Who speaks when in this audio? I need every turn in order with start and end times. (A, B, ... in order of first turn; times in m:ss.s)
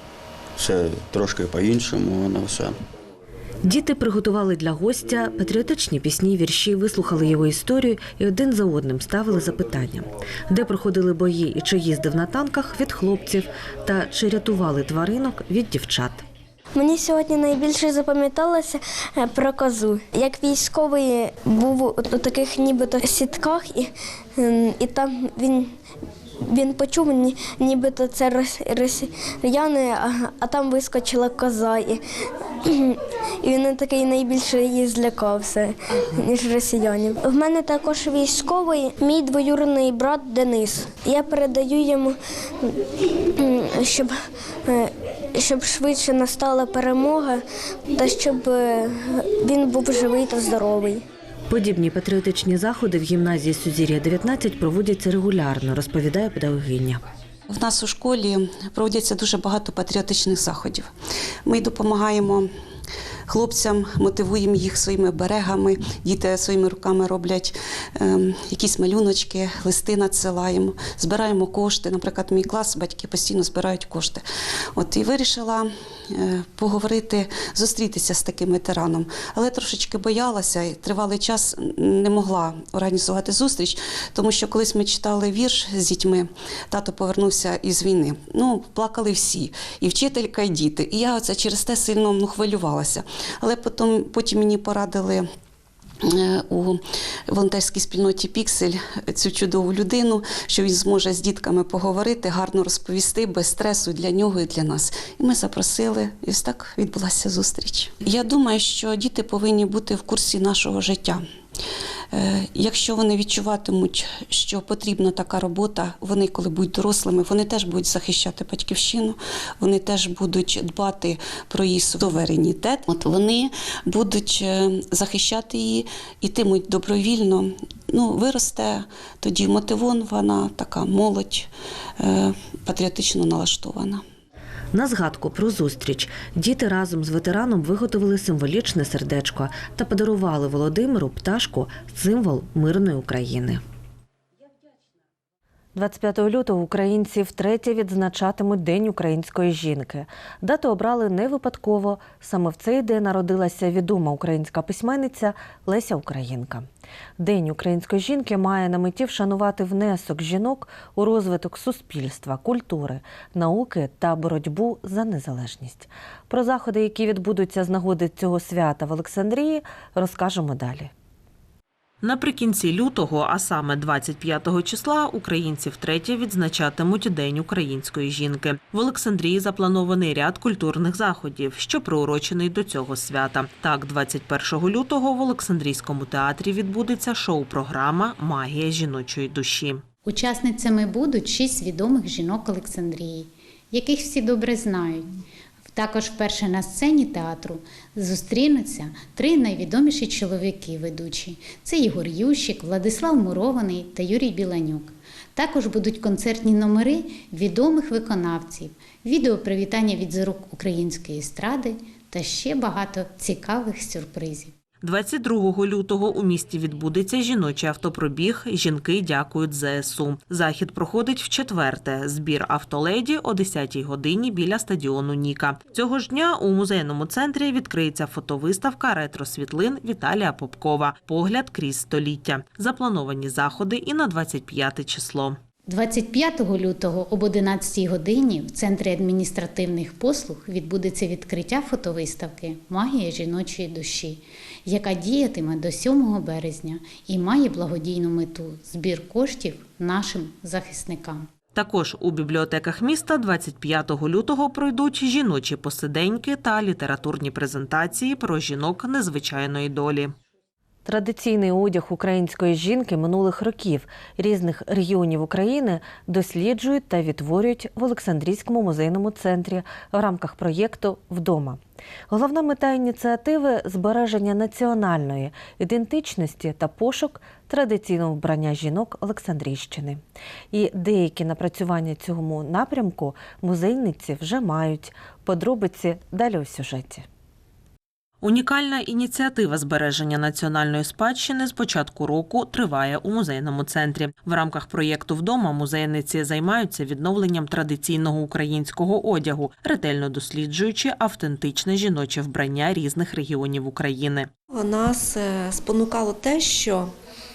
0:00.6-0:02.7 A
0:03.6-0:16.2 B
0:16.8-0:25.7 C
0:26.4-0:32.0 C
0:32.7-0:42.8 C
0:43.4-0:51.0 C
0:51.5-0:57.0 B
0:57.5-1:00.9 D
1:01.4-1:02.5 D
1:03.3-1:14.2 D
1:14.8-1:35.3 D
1:36.0-1:51.2 D
1:52.1-2:11.5 D
2:12.0-2:14.0 D
2:14.7-2:23.6 B
2:25.8-2:36.7 B
2:37.2-2:50.9 B
2:52.0-3:09.8 E
3:10.0-3:15.1 F
3:15.8-3:34.5 F
3:34.8-3:55.4 E
3:55.7-4:11.3 F
4:11.5-4:20.1 E
4:20.9-4:40.0 B
4:40.5-4:47.0 B
4:48.2-5:04.3 E
5:04.5-5:06.9 G